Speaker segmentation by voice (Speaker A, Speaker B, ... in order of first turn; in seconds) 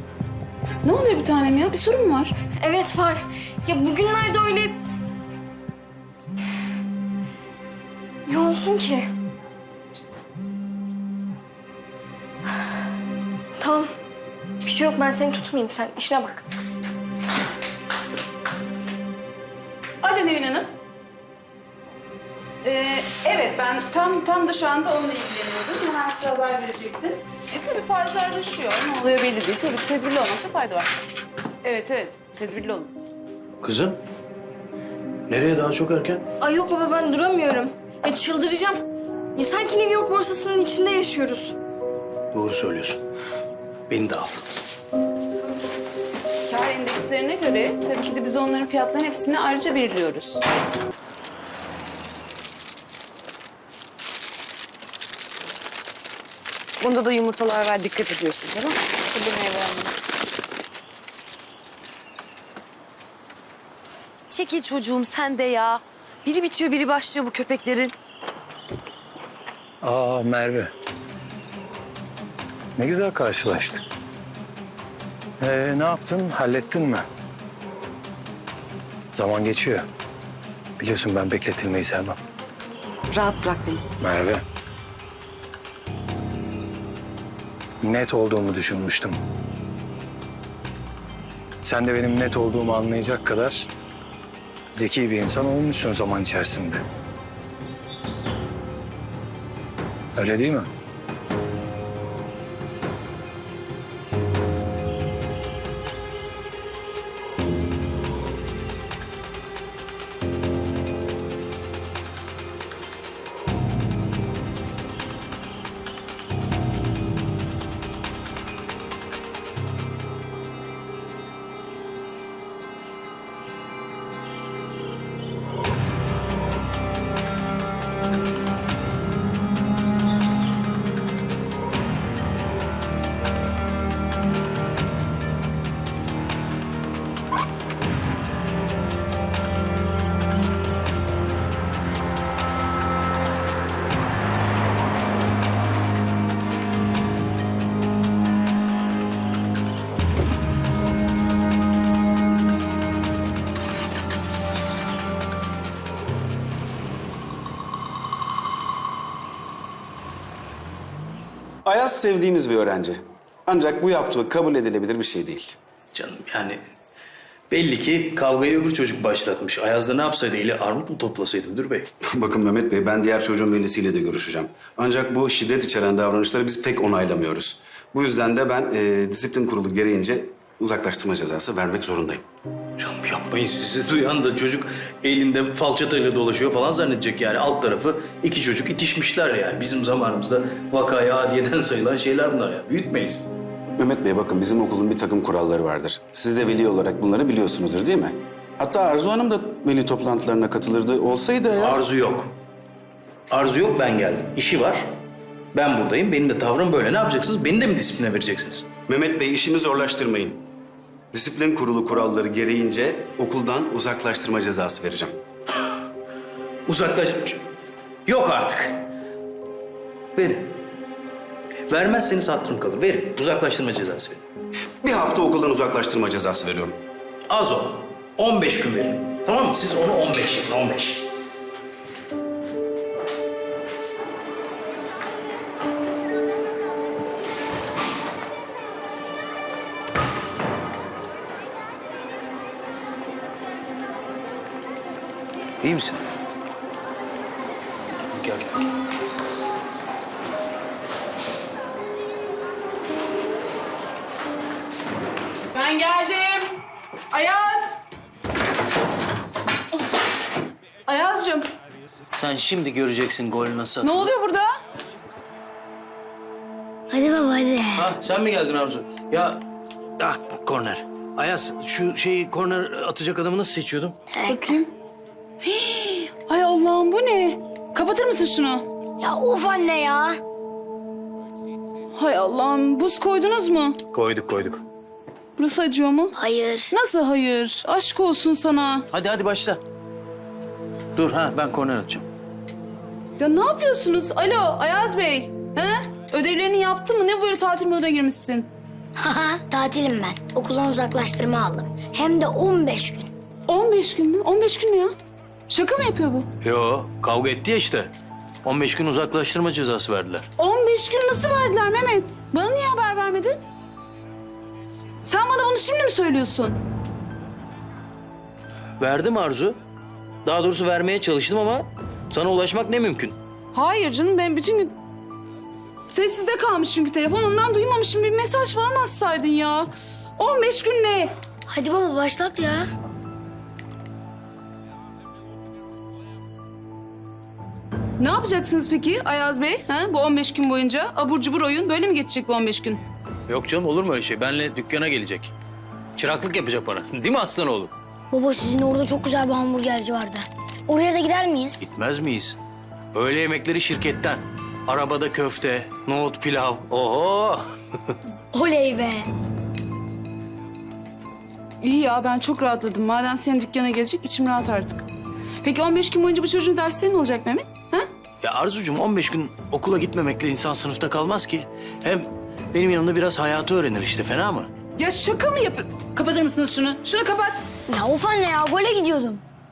Speaker A: 0.8-2.3, 20.0-20.7, 22.6-30.9, 31.6-32.9, 46.5-50.4, 255.5-256.6, 257.1-257.8, 260.9-261.5, 263.8-264.6, 274.3-274.7, 275.4-278.6, 281.9-283.8, 285.4-286.1, 286.7-288.9, 293.2-298.5, 303.5-304.9, 305.5-306.3, 310.4-313.4, 315.0-316.6, 323.5-324.8, 325.9-331.1, 338.0-342.8, 361.6-364.8, 365.4-367.9, 374.8-377.5
Speaker B: 2.6-4.8, 8.3-9.1, 13.6-13.9, 14.6-16.4, 36.4-38.8, 39.4-41.5, 59.1-59.8
Speaker C: 33.6-34.0, 35.3-36.2, 42.3-43.0, 43.9-44.4, 165.9-166.6, 167.5-171.9, 182.8-193.3, 201.6-202.3, 203.3-204.9, 205.5-208.7, 216.7-217.4, 218.1-218.8, 220.2-220.6, 221.7-224.2, 227.3-231.1, 245.6-246.0, 248.1-248.6, 262.1-264.1, 267.8-269.4, 270.0-274.0, 283.9-284.6, 288.9-289.6, 290.9-292.1, 306.4-307.9, 308.4-310.3, 318.8-319.6, 320.2-323.2, 343.3-345.3, 346.0-347.7, 351.6-352.4, 352.9-357.5, 368.2-374.5
Speaker D: 56.8-58.8, 64.3-67.9, 83.1-83.8
Speaker E: 69.8-70.7, 72.8-73.8, 75.4-77.0, 79.1-79.9, 80.8-82.2, 84.0-84.4, 87.8-89.2, 91.6-93.7, 94.7-96.8, 100.1-100.7
Speaker F: 161.6-165.6, 172.1-182.2, 193.8-201.8, 208.9-210.4, 211.1-215.2, 224.8-226.8
Speaker G: 266.9-267.9, 274.1-274.6, 279.0-280.2, 286.1-286.7, 299.0-303.1, 331.5-332.7, 348.1-351.6, 358.3-359.1, 377.7-379.2